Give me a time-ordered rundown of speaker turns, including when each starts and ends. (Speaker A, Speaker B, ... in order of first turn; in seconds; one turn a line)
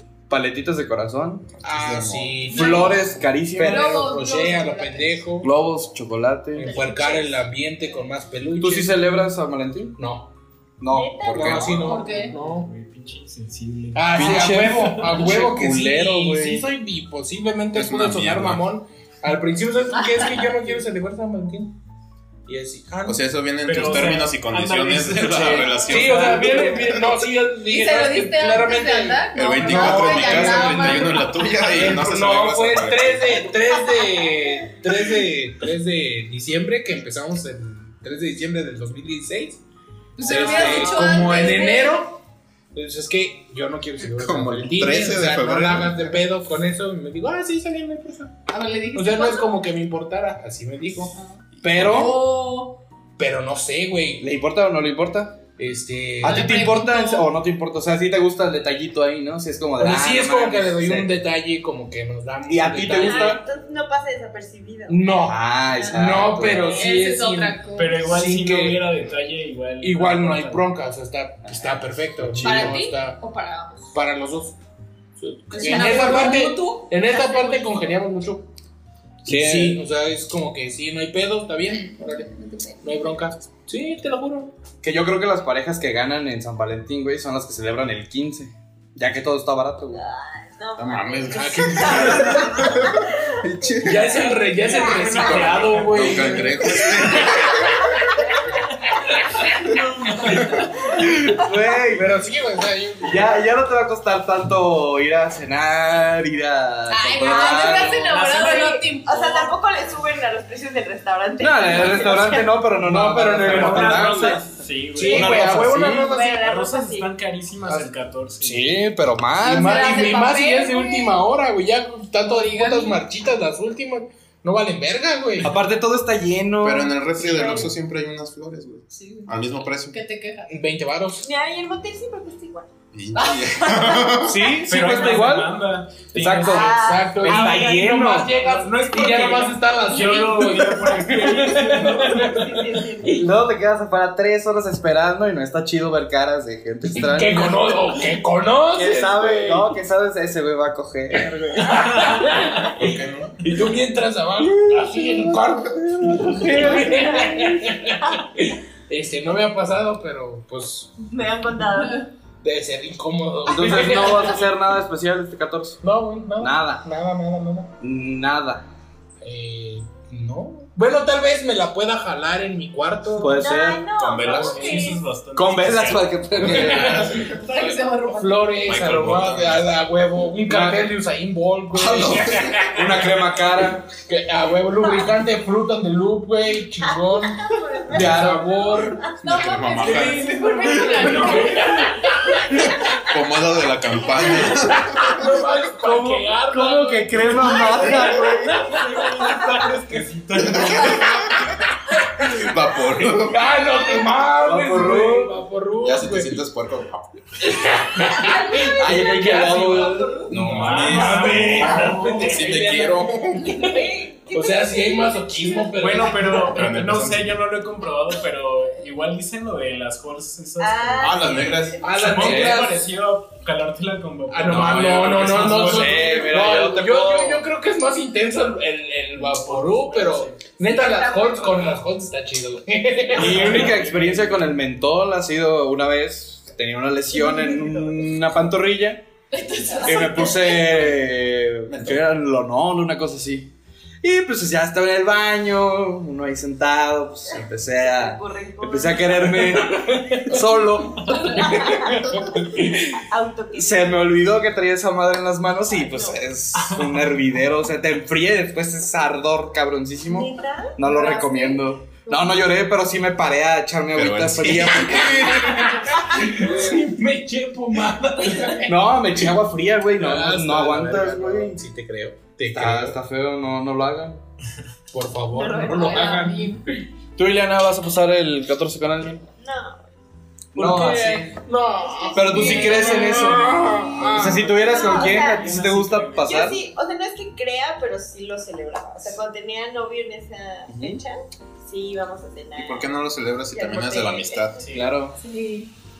Speaker A: 0.3-1.5
Speaker B: 1.6-2.5
Speaker C: 1.6-5.5
Speaker D: 2.5-3.0
Speaker A: 2.5-3.9
Speaker D: 3.6-5.3
Speaker A: 5.4-6.7
Speaker C: 6.6-9.0
Speaker D: 6.6-7.5
Speaker A: 8.6-10.0
Speaker C: 10.0-10.3
Speaker A: 10.8-11.7
Speaker E: 10.8-12.1
Speaker C: 11.3-12.7
Speaker D: 11.7-12.3
Speaker F: 12.1-15.3
Speaker C: 13.9-21.7
Speaker A: 14.1-16.6
Speaker B: 17.7-18.6
Speaker C: 22.5-23.2
Speaker B: 23.1-27.0
Speaker F: 23.6-26.9
Speaker C: 25.8-39.6
Speaker D: 27.6-31.7
Speaker B: 29.3-33.5
Speaker E: 33.9-34.2
Speaker D: 40.2-42.1
Speaker C: 40.2-42.1
Speaker A: 40.4-40.8
Speaker C: 42.7-48.3
Speaker B: 44.0-46.2
Speaker D: 48.5-49.6
Speaker C: 48.9-51.1
Speaker D: 51.1-52.8
Speaker B: 51.6-52.0
Speaker A: 51.6-52.1
Speaker C: 53.2-54.2
Speaker A: 54.2-55.4
Speaker C: 55.6-56.6
Speaker A: 56.2-61.1
Speaker D: 56.2-57.3
Speaker C: 59.8-63.4
Speaker A: 62.5-63.4
Speaker E: 62.8-66.3
Speaker C: 64.9-68.8
Speaker A: 65.2-66.8
Speaker D: 66.5-68.1
Speaker F: 67.8-70.6
Speaker C: 69.8-73.2
Speaker A: 71.5-72.8
Speaker D: 72.4-73.9
Speaker C: 73.9-74.5
Speaker C: 75.2-78.5
Speaker D: 75.5-78.0
Speaker E: 75.6-76.3
Speaker A: 79.2-79.8
Speaker C: 79.2-82.2
Speaker D: 81.9-83.1
Speaker C: 82.8-84.5
Speaker A: 84.8-90.0
Speaker E: 89.9-96.8
Speaker B: 90.8-94.2
Speaker C: 91.3-92.6
Speaker C: 93.8-97.5
Speaker F: 94.9-96.4
Speaker B: 95.1-97.7
Speaker F: 99.7-100.4
Speaker A: 100.8-102.1
Speaker C: 101.8-103.5
Speaker A: 103.0-108.0
Speaker D: 106.9-109.5
Speaker E: 107.2-112.5
Speaker A: 111.4-114.4
Speaker C: 112.8-116.4
Speaker F: 113.2-118.7
Speaker E: 115.0-117.1
Speaker A: 115.1-116.1
Speaker A: 118.4-119.9
Speaker C: 119.4-125.5
Speaker D: 119.5-121.3
Speaker D: 122.2-123.1
Speaker A: 125.4-127.0
Speaker B: 126.6-130.0
Speaker E: 127.2-127.7
Speaker D: 128.9-130.6
Speaker C: 130.5-131.2
Speaker E: 131.2-132.7
Speaker B: 132.9-134.4
Speaker D: 133.1-134.2
Speaker A: 134.2-135.6
Speaker F: 134.7-136.1
Speaker A: 136.1-138.4
Speaker C: 136.1-142.6
Speaker E: 136.4-138.1
Speaker F: 138.4-142.3
Speaker E: 141.8-143.3
Speaker A: 143.1-147.8
Speaker C: 146.9-149.7
Speaker A: 148.8-152.0
Speaker C: 151.5-160.9
Speaker B: 152.7-153.4
Speaker A: 154.4-157.5
Speaker E: 156.6-157.4
Speaker E: 161.0-162.1
Speaker D: 161.7-162.0
Speaker C: 162.4-164.4
Speaker A: 163.4-165.8
Speaker C: 165.8-167.7
Speaker A: 166.4-166.8
Speaker A: 167.8-168.7
Speaker C: 169.2-173.4
Speaker A: 173.2-173.8
Speaker E: 173.4-175.0
Speaker B: 174.0-174.7
Speaker F: 174.1-177.1
Speaker A: 175.3-177.1
Speaker C: 176.3-182.5
Speaker D: 177.2-178.9
Speaker B: 178.7-179.7
Speaker A: 180.5-180.9
Speaker B: 181.8-182.5
Speaker A: 181.9-183.9
Speaker C: 183.9-189.0
Speaker E: 186.8-190.0
Speaker A: 187.9-188.6
Speaker B: 189.2-190.9
Speaker D: 189.2-191.9
Speaker C: 189.8-192.3
Speaker B: 193.0-195.1
Speaker C: 194.2-200.0
Speaker A: 195.8-198.7
Speaker F: 198.6-201.2
Speaker B: 200.3-201.4
Speaker B: 202.2-203.7
Speaker C: 203.0-206.4
Speaker A: 204.4-205.4
Speaker B: 205.8-207.1
Speaker C: 207.5-213.8
Speaker E: 208.2-209.8
Speaker A: 208.5-210.3
Speaker B: 210.3-213.6
Speaker F: 210.3-212.5
Speaker E: 213.4-216.5
Speaker C: 214.3-216.4
Speaker F: 215.8-226.3
Speaker B: 216.3-217.4
Speaker E: 220.6-222.0
Speaker B: 221.0-222.0
Speaker C: 221.8-222.9
Speaker A: 222.2-222.7
Speaker C: 224.3-233.8
Speaker A: 224.5-227.4
Speaker F: 229.2-230.6
Speaker E: 230.6-231.8
Speaker F: 233.1-234.5
Speaker A: 233.1-239.0
Speaker D: 239.3-240.7
Speaker A: 239.8-243.5
Speaker B: 241.7-242.1
Speaker A: 244.0-251.4
Speaker E: 247.3-250.2
Speaker C: 249.6-250.3
Speaker E: 251.1-254.2
Speaker C: 251.3-252.3
Speaker A: 253.5-265.2
Speaker E: 255.7-256.2
Speaker E: 260.1-262.4
Speaker B: 263.9-265.7
Speaker C: 264.7-269.3
Speaker A: 268.6-271.6
Speaker C: 269.9-273.0
Speaker A: 272.5-274.2
Speaker C: 274.9-276.6
Speaker E: 275.3-276.3
Speaker D: 275.6-276.6
Speaker A: 277.1-279.2
Speaker E: 279.4-279.8
Speaker A: 280.5-281.3
Speaker C: 280.6-284.6
Speaker E: 282.0-282.9
Speaker A: 282.1-286.6
Speaker D: 282.3-283.1
Speaker F: 284.0-286.6
Speaker E: 284.5-285.5
Speaker E: 286.2-292.9
Speaker A: 290.7-291.0
Speaker B: 292.6-294.6
Speaker E: 293.5-294.6
Speaker F: 294.6-295.0
Speaker A: 294.7-295.2
Speaker D: 295.2-295.7